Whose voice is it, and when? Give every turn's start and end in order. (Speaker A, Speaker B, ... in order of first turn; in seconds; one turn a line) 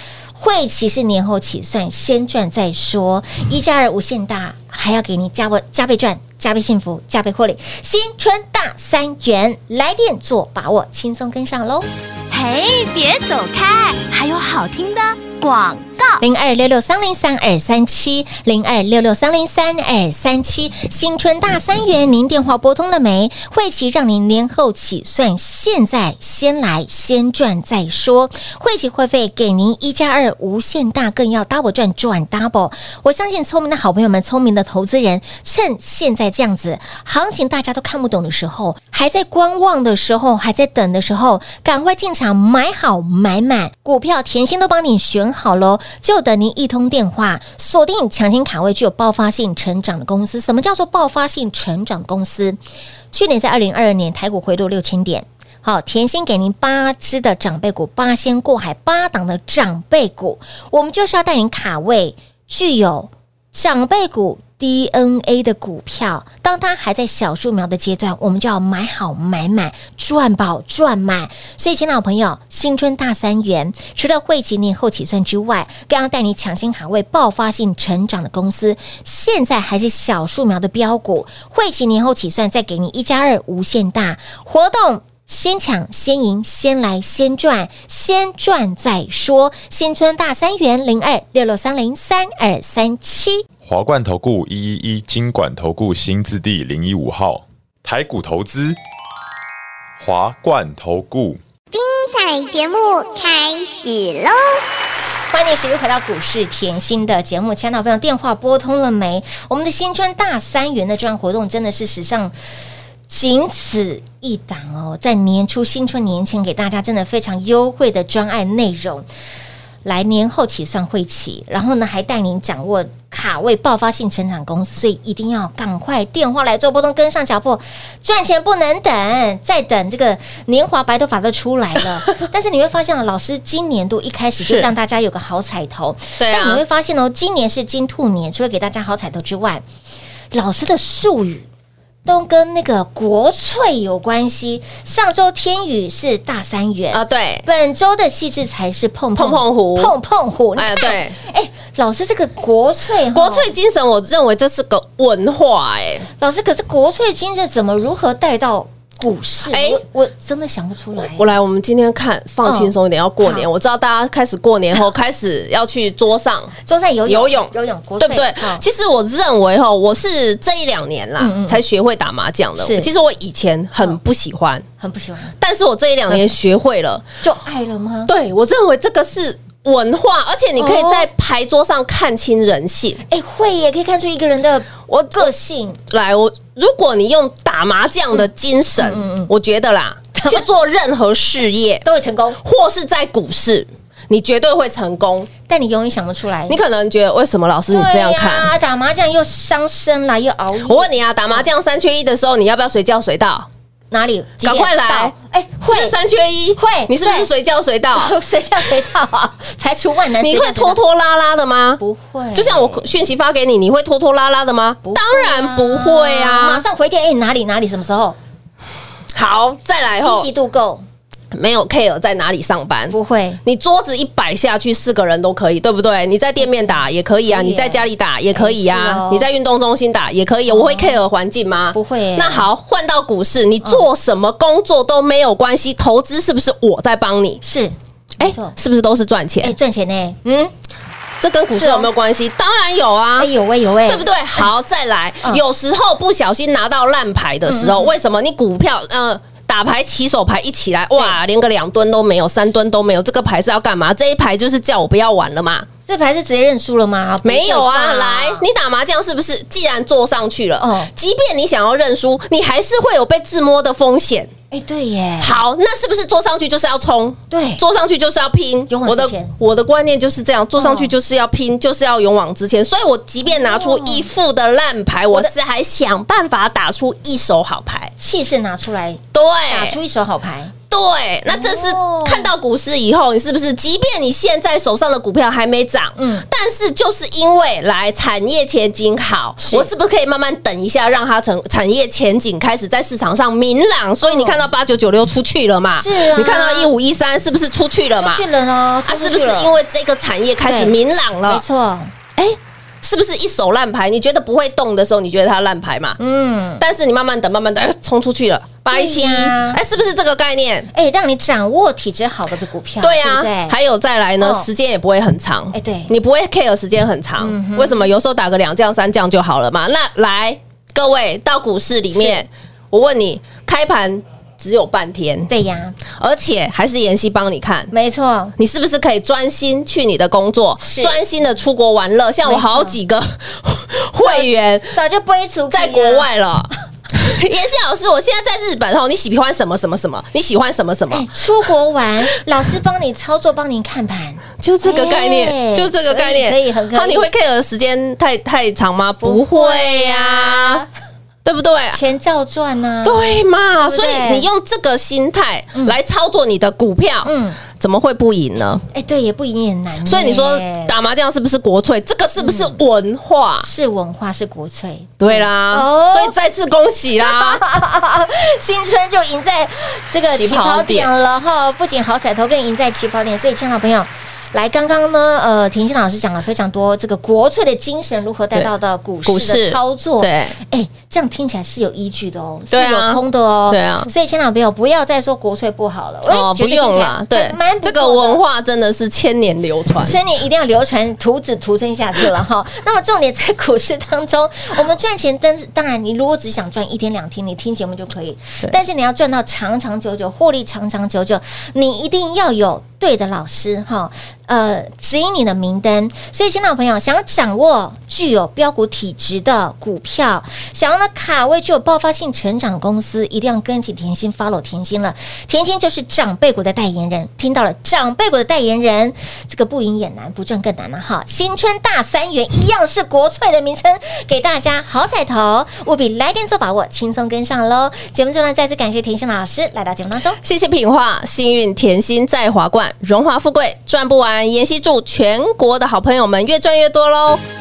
Speaker A: 0.3-11.9
Speaker B: 12.3-16.2
Speaker A: 16.2-52.6
Speaker A: 53.1-93.5
Speaker C: 93.6-98.8
Speaker C: 100.0-101.4
Speaker D: 101.7-104.6
Speaker A: 105.3-112.3
Speaker A: 113.1-119.1
Speaker A: 119.8-139.6
Speaker E: 134.4-134.7
Speaker E: 136.2-136.6
Speaker A: 140.3-141.5
Speaker A: 142.1-153.5
Speaker E: 146.9-147.4
Speaker E: 149.2-149.9
Speaker E: 150.6-151.2
Speaker E: 153.1-156.1
Speaker A: 156.2-161.3
Speaker E: 159.5-159.8
Speaker E: 161.0-166.5
Speaker A: 162.4-163.5
Speaker A: 166.7-168.6
Speaker E: 167.1-174.7
Speaker A: 171.2-171.6
Speaker A: 172.6-172.9
Speaker A: 174.8-175.3
Speaker E: 175.4-177.1
Speaker A: 177.2-178.1
Speaker E: 178.1-183.0
Speaker A: 180.6-181.1
Speaker A: 183.1-185.8
Speaker E: 184.9-185.3
Speaker E: 185.9-191.8
Speaker A: 188.8-189.3
Speaker A: 190.2-190.4
Speaker A: 191.8-192.4
Speaker E: 192.4-195.3
Speaker A: 195.5-196.6
Speaker E: 196.5-198.5
Speaker A: 197.7-201.5
Speaker E: 200.7-203.5
Speaker A: 203.9-205.9
Speaker E: 204.4-205.1
Speaker E: 205.7-208.2
Speaker A: 206.6-207.3
Speaker A: 207.9-210.8
Speaker E: 210.2-211.8
Speaker A: 211.8-212.8
Speaker E: 212.3-216.6
Speaker A: 214.8-218.2
Speaker E: 219.1-220.3
Speaker A: 220.0-220.8
Speaker E: 221.3-237.4
Speaker A: 222.9-223.4
Speaker A: 226.4-226.8
Speaker A: 227.3-229.3
Speaker A: 230.5-231.0
Speaker A: 231.7-232.5
Speaker A: 237.4-238.6
Speaker E: 238.2-239.6
Speaker A: 239.4-240.5
Speaker E: 241.2-243.3
Speaker A: 241.6-241.9
Speaker A: 243.2-244.5
Speaker E: 243.9-255.7
Speaker A: 247.5-247.9
Speaker A: 255.9-258.5
Speaker E: 257.2-264.3
Speaker A: 260.6-260.9
Speaker A: 264.5-265.4
Speaker E: 265.2-277.9
Speaker A: 267.3-267.6
Speaker A: 268.7-269.3
Speaker A: 270.6-270.9
Speaker A: 273.3-274.1
Speaker A: 278.0-280.5
Speaker E: 279.1-279.8
Speaker E: 280.7-298.2
Speaker A: 281.3-282.3
Speaker A: 286.0-286.3
Speaker A: 289.4-289.7
Speaker A: 294.0-294.4
Speaker A: 295.7-296.7
Speaker A: 298.0-299.5
Speaker E: 298.9-301.4
Speaker A: 300.4-300.8
Speaker A: 301.3-301.9
Speaker E: 302.2-306.0
Speaker A: 306.0-306.6
Speaker E: 306.6-310.7
Speaker A: 308.7-309.6
Speaker A: 310.7-313.6
Speaker E: 312.8-325.3
Speaker A: 314.2-314.5
Speaker A: 315.5-315.9
Speaker A: 317.2-317.9
Speaker A: 321.9-322.2
Speaker A: 325.3-325.8
Speaker E: 326.0-327.7
Speaker A: 327.7-328.4
Speaker E: 328.4-334.7
Speaker A: 330.6-331.0
Speaker A: 332.2-332.8
Speaker A: 334.0-336.1
Speaker E: 335.5-341.1
Speaker A: 340.9-347.1
Speaker E: 344.4-350.6
Speaker A: 349.0-350.7
Speaker E: 351.2-351.8
Speaker A: 351.7-353.1
Speaker E: 352.8-358.6
Speaker A: 353.6-354.3
Speaker A: 357.0-357.4
Speaker A: 358.7-360.7
Speaker E: 359.9-363.5
Speaker A: 362.2-362.6
Speaker A: 363.4-366.1
Speaker E: 365.0-367.4
Speaker A: 367.0-388.2
Speaker E: 370.1-370.9
Speaker E: 379.1-380.4
Speaker E: 382.5-383.9
Speaker E: 386.1-390.0
Speaker A: 389.8-430.2
Speaker E: 430.2-437.2